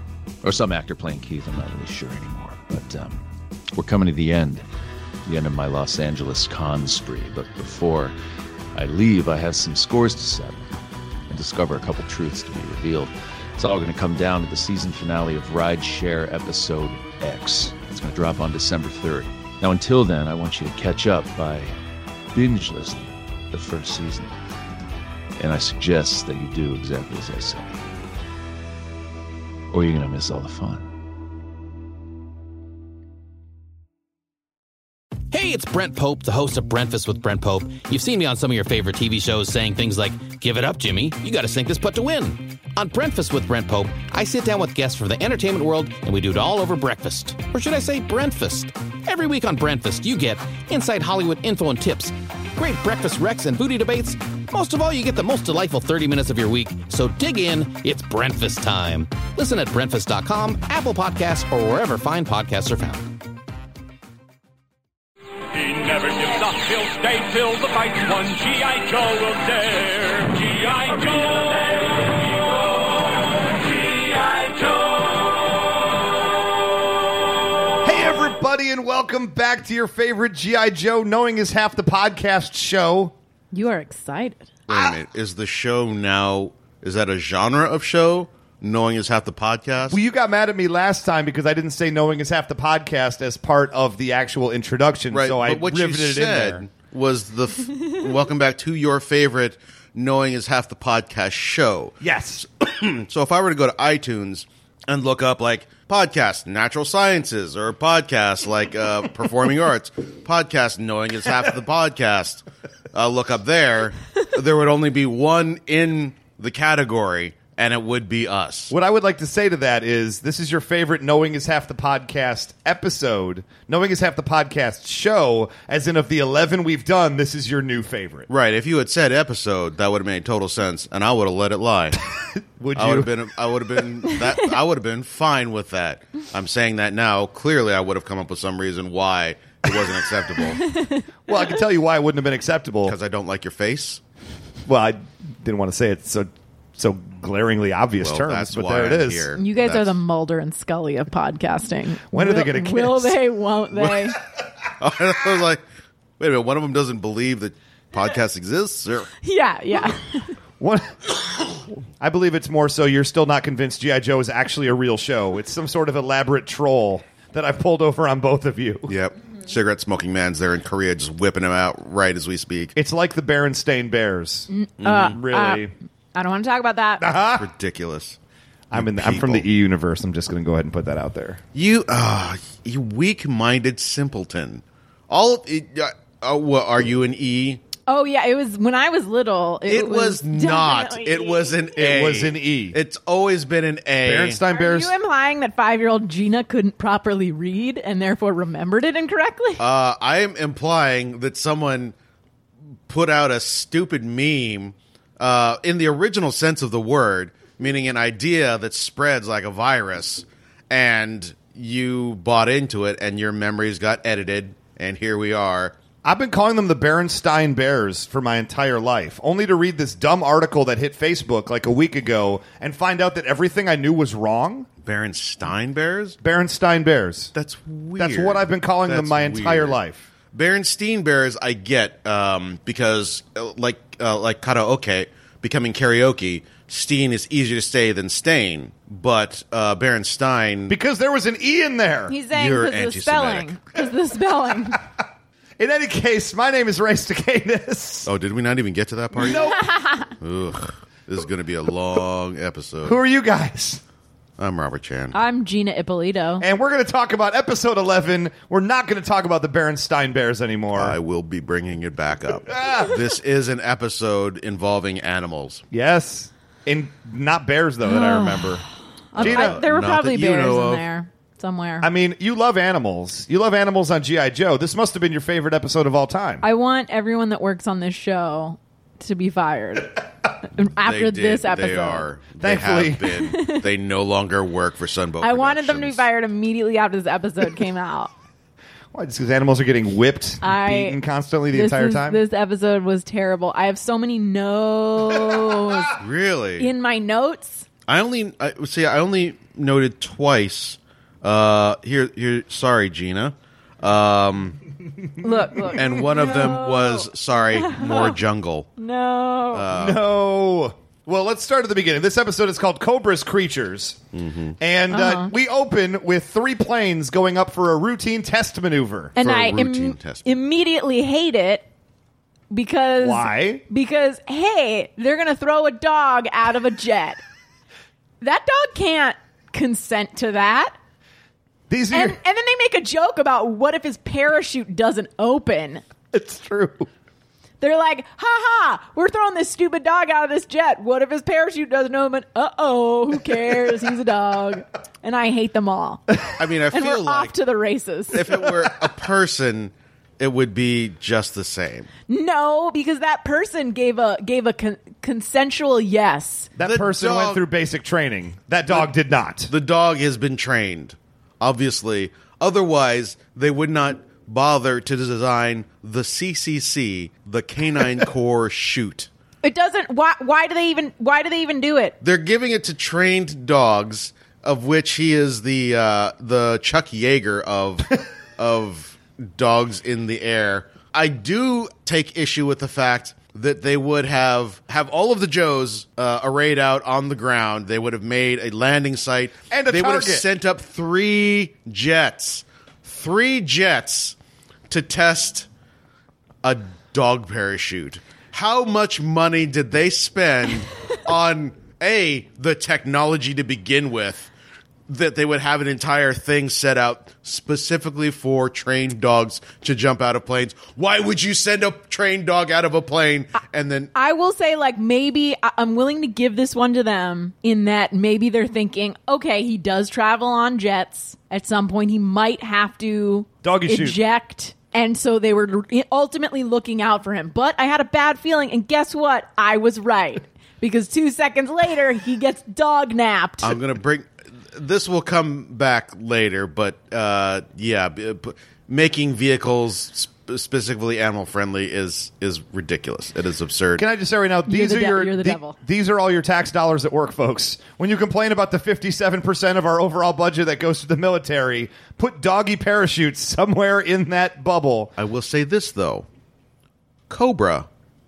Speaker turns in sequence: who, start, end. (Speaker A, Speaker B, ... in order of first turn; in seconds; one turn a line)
Speaker A: 0.4-3.2
Speaker A: 3.7-4.6
Speaker A: 5.2-8.1
Speaker A: 8.7-10.7
Speaker A: 11.3-21.7
Speaker A: 22.3-24.3
Speaker A: 25.4-27.8
Speaker A: 29.7-30.9
Speaker B: 35.3-63.1
Speaker C: 65.5-72.6
Speaker C: 73.5-75.0
Speaker D: 77.8-83.1
Speaker E: 83.5-84.5
Speaker F: 84.7-90.0
Speaker D: 84.7-85.0
Speaker D: 89.9-96.6
Speaker F: 95.1-102.0
Speaker D: 102.0-102.4
Speaker F: 102.6-118.7
Speaker D: 118.7-128.3
Speaker F: 128.3-132.0
Speaker D: 132.6-133.9
Speaker F: 132.7-140.6
Speaker E: 140.6-141.1
Speaker D: 141.3-142.9
Speaker F: 142.8-144.0
Speaker D: 144.7-149.3
Speaker F: 148.0-149.9
Speaker E: 149.4-154.2
Speaker D: 152.1-153.2
Speaker F: 153.8-154.0
Speaker F: 154.8-155.6
Speaker F: 156.2-159.1
Speaker E: 159.2-160.3
Speaker D: 160.6-168.9
Speaker F: 168.9-172.7
Speaker D: 172.8-174.5
Speaker E: 174.5-177.1
Speaker F: 174.8-175.1
Speaker D: 175.1-175.7
Speaker D: 177.0-177.5
Speaker F: 177.4-178.2
Speaker D: 178.7-181.4
Speaker F: 178.7-179.5
Speaker F: 181.5-187.6
Speaker E: 187.9-191.6
Speaker F: 189.7-194.4
Speaker D: 191.8-192.8
Speaker D: 194.0-194.9
Speaker E: 194.5-199.6
Speaker F: 199.6-201.9
Speaker F: 202.9-215.8
Speaker D: 216.0-224.7
Speaker F: 224.8-226.2
Speaker D: 226.2-227.3
Speaker F: 227.3-229.8
Speaker D: 228.0-230.0
Speaker F: 230.3-240.7
Speaker D: 240.7-242.1
Speaker E: 242.1-244.8
Speaker F: 242.3-243.6
Speaker D: 245.6-248.1
Speaker F: 248.1-249.5
Speaker D: 249.2-249.6
Speaker E: 249.6-250.1
Speaker F: 250.2-253.0
Speaker D: 252.8-253.8
Speaker F: 254.4-255.2
Speaker E: 255.1-256.4
Speaker D: 256.4-261.0
Speaker F: 260.7-265.6
Speaker D: 262.5-263.0
Speaker D: 265.7-268.6
Speaker E: 267.9-268.5
Speaker E: 269.1-271.9
Speaker D: 269.1-269.6
Speaker F: 269.1-270.8
Speaker D: 271.8-276.4
Speaker E: 276.4-282.0
Speaker F: 280.8-286.0
Speaker D: 282.4-283.1
Speaker E: 283.2-283.6
Speaker E: 285.2-288.1
Speaker D: 288.9-292.2
Speaker E: 290.4-291.0
Speaker E: 291.5-296.0
Speaker F: 295.9-296.7
Speaker E: 296.6-297.6
Speaker F: 297.9-304.6
Speaker E: 305.2-308.1
Speaker F: 305.6-308.7
Speaker E: 308.8-309.6
Speaker F: 309.5-310.0
Speaker D: 309.7-314.0
Speaker F: 314.1-314.6
Speaker D: 314.6-319.1
Speaker E: 314.9-315.3
Speaker E: 319.1-321.6
Speaker F: 319.2-320.2
Speaker E: 322.5-327.2
Speaker D: 323.0-323.6
Speaker E: 328.2-330.7
Speaker D: 331.7-332.2
Speaker E: 331.9-335.8
Speaker D: 336.1-336.9
Speaker E: 337.6-346.1
Speaker F: 346.3-347.3
Speaker E: 346.7-348.2
Speaker F: 348.1-351.9
Speaker E: 352.1-356.5
Speaker D: 356.6-359.5
Speaker F: 356.6-357.4
Speaker F: 359.5-369.1
Speaker E: 369.4-371.9
Speaker F: 372.0-394.1
Speaker D: 389.5-390.2
Speaker F: 394.7-395.5
Speaker F: 396.4-404.3
Speaker F: 404.9-413.9
Speaker E: 413.9-433.6
Speaker D: 423.4-424.0
Speaker F: 433.4-443.8
Speaker D: 443.8-454.9
Speaker E: 444.4-445.6
Speaker F: 455.0-456.1
Speaker F: 457.1-457.7